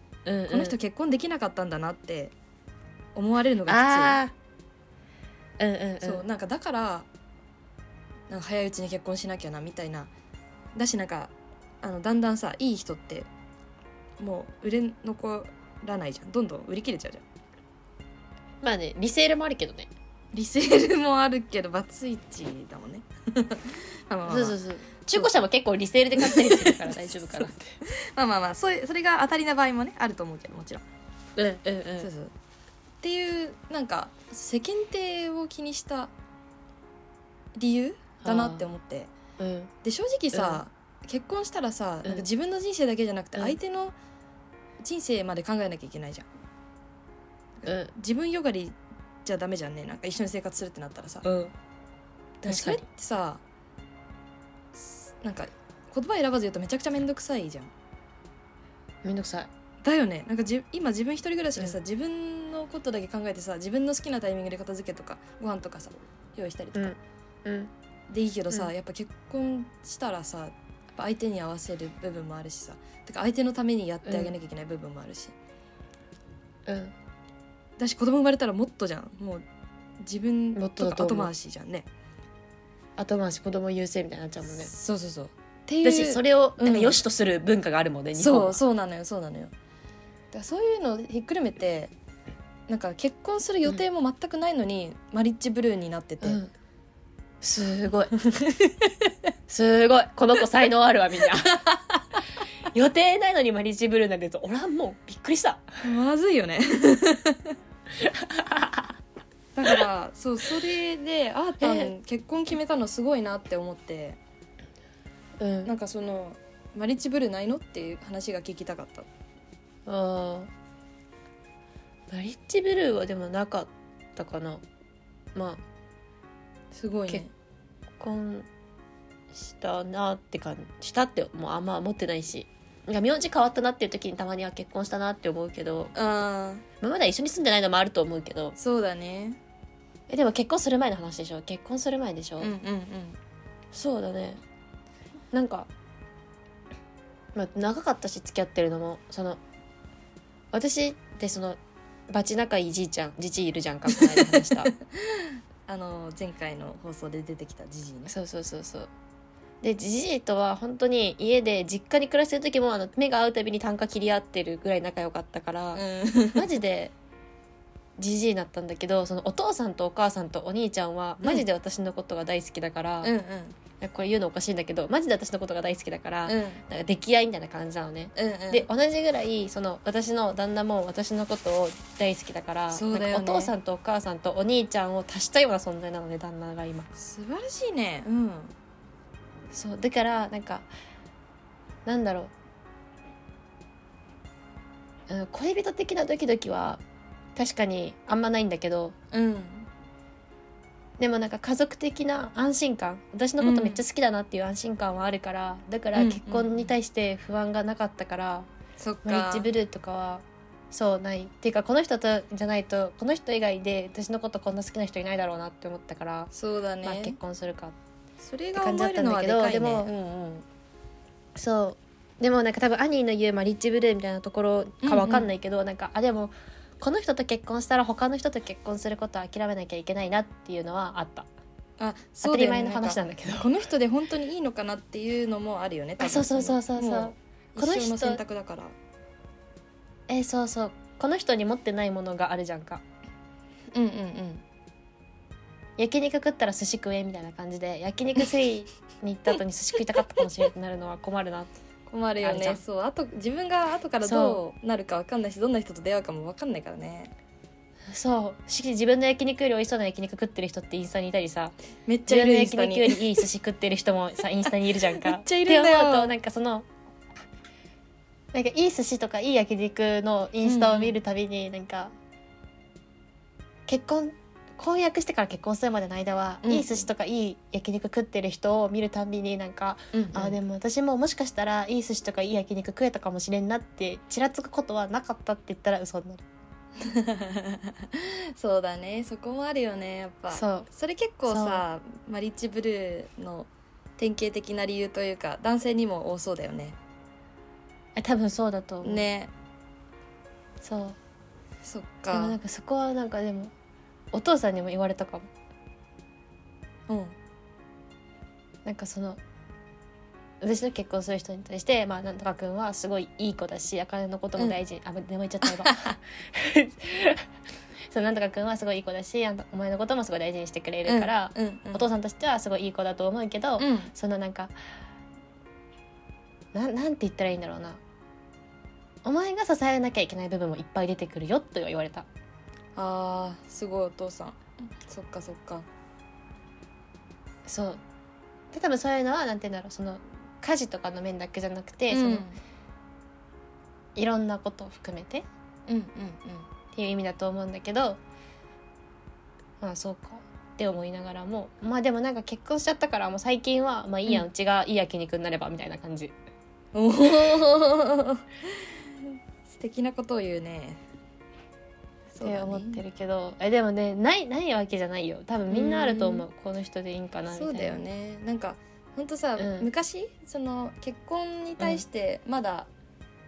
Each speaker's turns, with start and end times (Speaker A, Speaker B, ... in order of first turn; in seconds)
Speaker A: 0.2-0.8, 3.7-4.3, 5.6-6.2, 18.6-19.9, 24.3-27.8, 31.4-32.1, 38.2-38.7, 39.4-39.7, 40.3-40.6, 47.6-47.9, 51.2-51.5, 52.4-52.8, 59.0-59.5, 66.7-67.7, 74.0-74.3, 76.7-76.9, 80.5-81.3, 83.0-84.7, 85.8-88.6, 96.2-96.5, 97.4-98.2, 99.5-101.6, 102.7-105.8, 108.0-108.9, 111.6-111.9, 115.4-115.7, 119.8-120.5, 122.1-124.6, 125.3-125.6, 128.0-128.5, 129.3-135.9, 136.8-138.6, 140.1-142.5, 143.7-144.4, 145.3-145.7, 147.3-149.4, 150.5-154.7, 158.1-158.9, 159.6-166.9, 168.0-173.1, 173.8-186.9, 189.5-190.7, 191.8-192.3, 195.1-196.8, 197.3-198.9, 201.0-208.5, 209.0-216.3, 216.8-217.7, 218.5-220.4, 221.3-231.3, 232.2-233.5, 236.0-238.2, 240.1-242.8, 245.8-251.5, 252.2-252.6, 254.0-254.4, 257.9-261.5, 262.1-266.7, 268.3-271.9, 273.7-286.2, 290.3-290.7, 291.3-291.6, 297.9-299.1, 300.6-301.0, 302.1-303.5, 304.1-305.3, 308.6-309.2, 310.4-317.2, 317.9-324.5, 326.5-327.8, 329.0-332.1, 337.4-337.8, 338.5-342.2, 343.9-345.2, 346.7-348.0, 349.6-356.1, 362.2-367.8, 369.4-369.7
Speaker B: 0.5-2.3, 3.1-4.2, 6.0-7.1, 8.3-10.1, 10.7-13.3, 14.2-17.2, 20.3-24.6, 26.1-30.8, 32.0-32.3, 33.0-36.1, 37.5-39.1, 39.8-43.9, 44.8-46.3, 47.6-51.2, 52.4-53.4, 54.7-57.7, 59.8-66.9, 68.1-75.3, 77.8-79.4, 80.0-81.9, 84.5-87.0, 88.1-89.5, 90.3-91.9, 92.7-96.4, 98.2-99.1, 101.7-102.0, 105.8-107.5, 109.5-114.2, 115.6-119.1, 126.7-127.3, 135.9-136.6, 138.6-139.4, 142.4-143.2, 153.9-158.1, 165.7-166.5, 173.0-173.6, 176.2-176.6, 178.2-178.7, 182.7-183.5, 186.9-188.5, 199.1-199.7, 203.4-203.8, 205.9-206.7, 208.8-209.5, 216.3-217.2, 218.2-220.4, 224.8-225.3, 231.8-238.7, 243.7-244.4, 251.9-257.1, 261.9-263.2, 264.9-266.1, 270.4-271.0, 276.4-276.9, 279.9-280.4, 286.8-296.8, 298.8-299.3, 301.6-302.4, 306.9-307.1, 315.4-315.9, 320.9-321.9, 323.6-323.9, 332.7-335.7, 341.9-342.4, 345.7-346.5, 356.7-360.8, 362.1-362.8, 365.5-366.2, 367.3-372.7